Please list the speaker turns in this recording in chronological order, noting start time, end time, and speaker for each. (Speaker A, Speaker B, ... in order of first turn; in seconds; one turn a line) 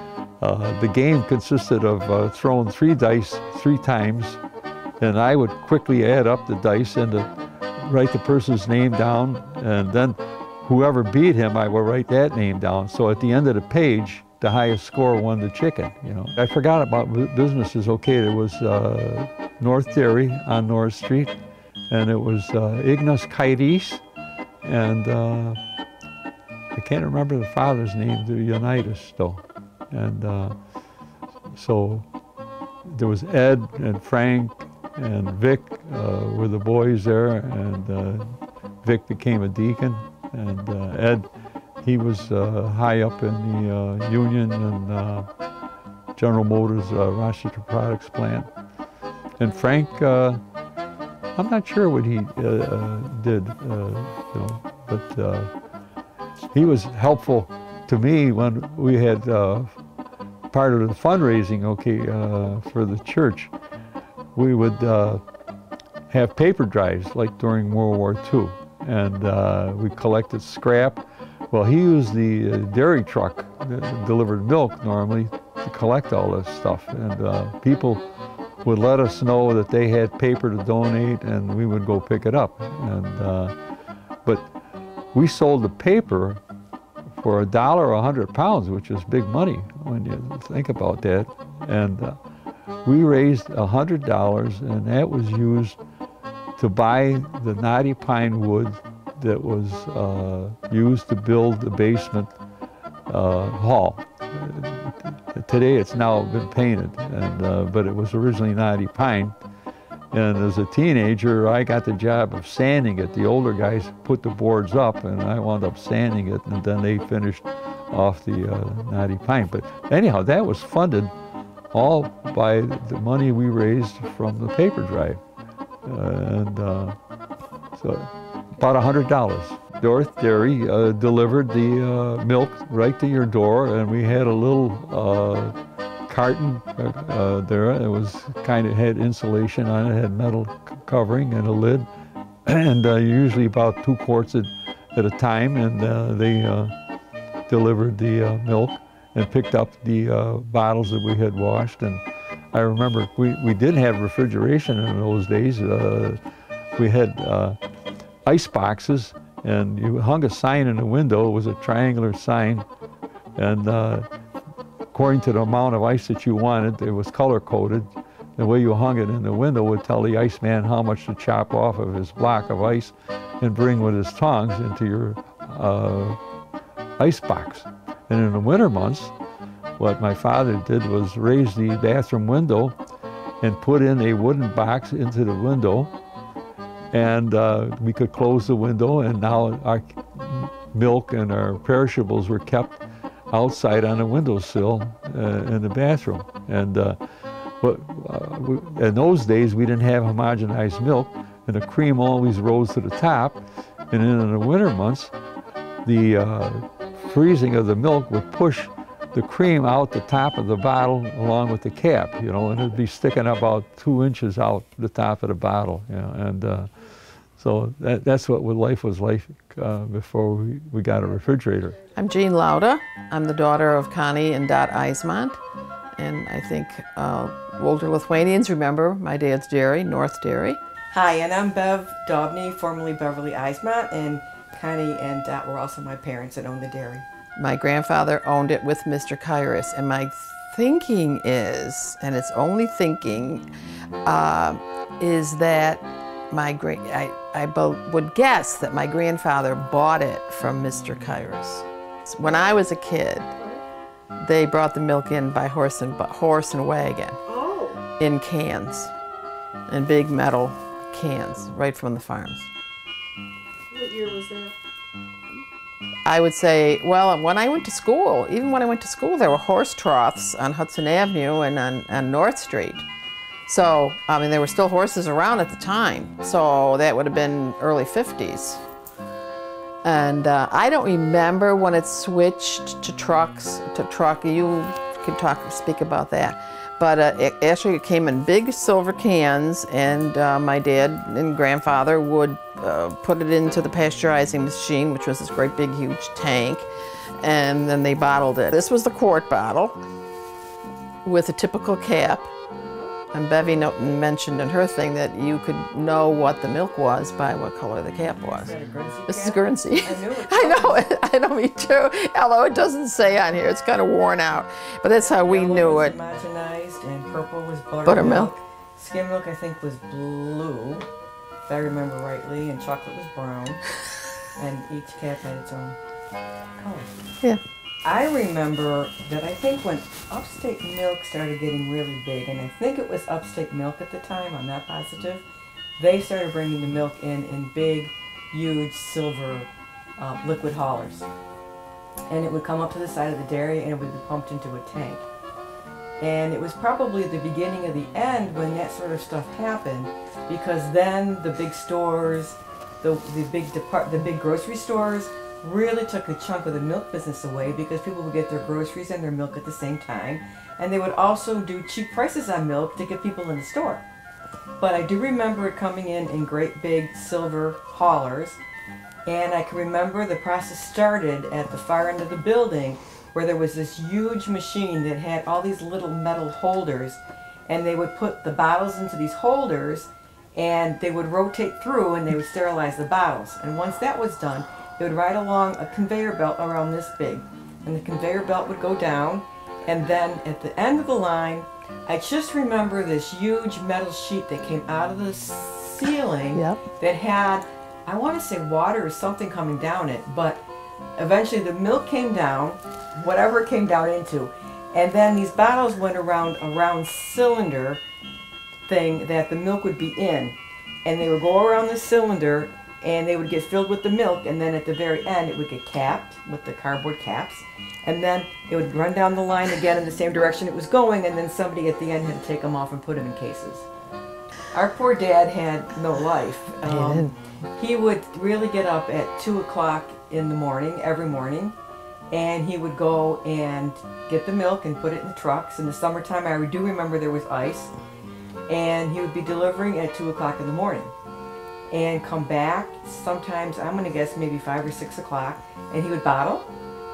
Speaker A: 0.4-4.4
Speaker A: 5.0-21.3
Speaker A: 21.9-24.0
Speaker A: 24.6-25.6
Speaker A: 26.8-30.6
Speaker A: 31.5-32.1
Speaker A: 32.9-41.3
Speaker A: 41.8-45.3
Speaker A: 46.2-48.5
Speaker A: 49.4-50.4
Speaker A: 51.4-55.5
Speaker A: 56.5-59.8
Speaker A: 60.5-63.5
Speaker A: 64.3-65.2
Speaker A: 66.1-78.0
Speaker A: 78.6-83.5
Speaker A: 85.1-86.4
Speaker A: 87.2-92.2
Speaker A: 92.8-95.8
Speaker A: 96.6-102.3
Speaker A: 103.1-109.4
Speaker A: 110.1-121.1
Speaker A: 121.7-125.2
Speaker A: 125.8-127.0
Speaker A: 127.8-135.6
Speaker A: 136.1-141.9
Speaker A: 142.4-146.7
Speaker A: 147.5-156.2
Speaker A: 156.8-157.6
Speaker A: 158.2-162.7
Speaker A: 163.4-164.1
Speaker A: 164.9-176.2
Speaker A: 177.0-179.1
Speaker A: 179.8-182.8
Speaker A: 183.4-185.9
Speaker A: 186.9-197.0
Speaker A: 197.6-205.1
Speaker A: 205.8-216.7
Speaker A: 217.4-221.8
Speaker B: 221.1-222.0
Speaker C: 221.9-225.4
Speaker C: 226.0-230.6
Speaker D: 230.9-237.1
Speaker C: 237.4-243.4
Speaker C: 244.0-253.3
Speaker B: 252.2-252.6
Speaker B: 253.4-253.6
Speaker C: 254.2-257.2
Speaker B: 257.3-257.9
Speaker C: 258.0-258.9
Speaker C: 259.7-262.5
Speaker B: 263.7-264.6
Speaker C: 266.1-272.9
Speaker C: 273.5-278.6
Speaker C: 279.8-296.7
Speaker C: 297.2-299.8
Speaker C: 301.0-302.3
Speaker B: 302.6-302.9
Speaker C: 303.1-308.6
Speaker D: 308.4-311.0
Speaker C: 309.1-316.0
Speaker D: 314.9-320.9
Speaker C: 317.9-318.3
Speaker D: 321.5-323.6
Speaker D: 324.4-325.8
Speaker D: 326.6-326.9
Speaker D: 327.8-335.2
Speaker D: 335.8-341.1
Speaker D: 342.1-345.1
Speaker D: 346.0-363.8
Speaker D: 364.6-368.4
Speaker D: 369.1-400.4
Speaker C: 396.4-396.6
Speaker D: 401.0-407.8
Speaker D: 408.7-423.7
Speaker D: 424.5-431.6
Speaker C: 426.7-427.1
Speaker D: 432.1-437.7
Speaker D: 438.5-440.9
Speaker D: 441.7-446.5